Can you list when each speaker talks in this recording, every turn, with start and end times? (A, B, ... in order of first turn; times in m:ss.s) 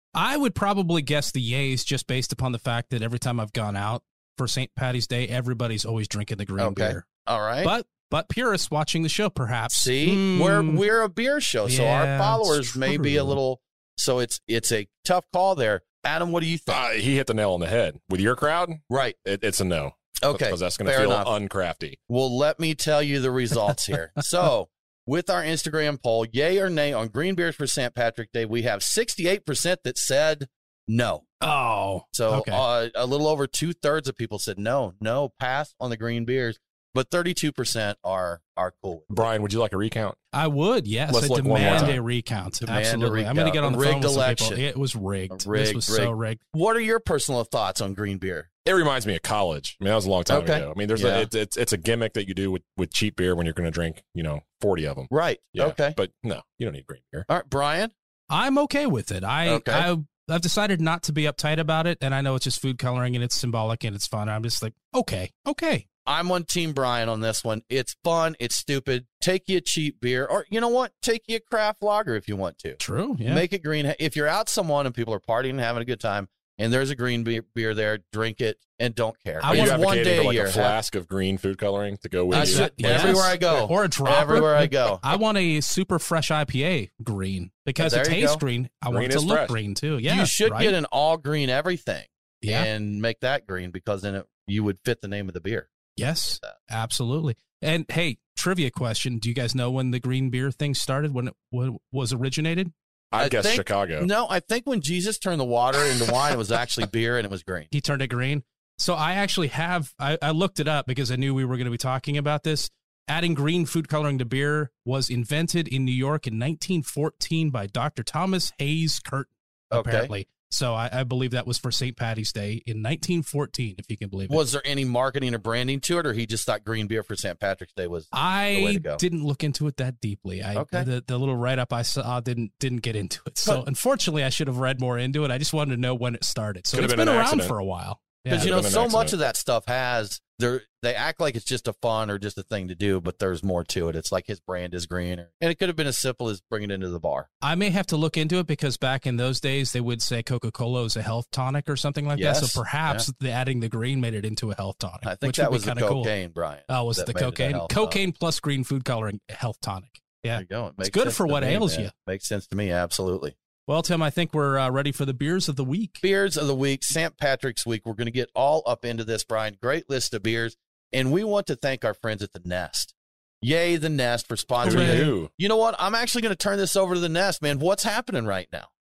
0:00.2-0:07.1 A
0:06.6-0:07.7 B
0:07.6-0:10.8 A
0:09.7-0:16.8 B
0:11.7-0:13.4 A
0:16.7-0:22.0 C
0:18.9-0:19.2 B
0:20.2-0:21.3 B
0:22.1-0:31.3 B
0:31.4-0:32.6 A
0:32.1-0:39.3 B
0:39.1-0:40.2 C
0:40.3-0:46.4 A
0:41.1-0:42.0 C
0:41.6-0:42.0 B
0:42.6-0:44.6 B
0:45.3-0:48.5 B
0:48.6-0:57.3 C
0:50.3-0:51.3 B
0:55.1-0:56.0 B
0:57.3-0:57.9 B
0:58.3-1:05.9 A
0:59.4-0:59.9 B
1:06.1-1:20.8 B
1:12.8-1:13.4 A
1:19.4-1:20.0 A
1:19.5-1:23.3 C
1:22.3-1:30.8 A
1:22.3-1:25.0 B
1:27.8-1:28.4 B
1:28.9-1:29.6 C
1:30.1-1:35.7 B
1:32.4-1:32.7 A
1:36.0-1:42.7 A
1:43.1-1:44.1 C
1:43.2-1:47.7 B
1:47.7-2:04.4 A
1:59.7-2:00.1 B
2:04.3-2:09.0 B
2:08.1-2:18.5 A
2:10.6-2:10.9 B
2:16.7-2:17.5 C
2:18.3-2:27.3 B
2:18.3-2:19.2 C
2:27.4-2:36.1 A
2:32.2-2:33.1 B
2:35.0-2:38.0 B
2:36.7-2:41.9 A
2:40.4-2:43.4 B
2:43.7-2:46.0 A
2:46.0-2:58.7 B
2:54.6-2:55.3 C
2:54.6-2:55.1 A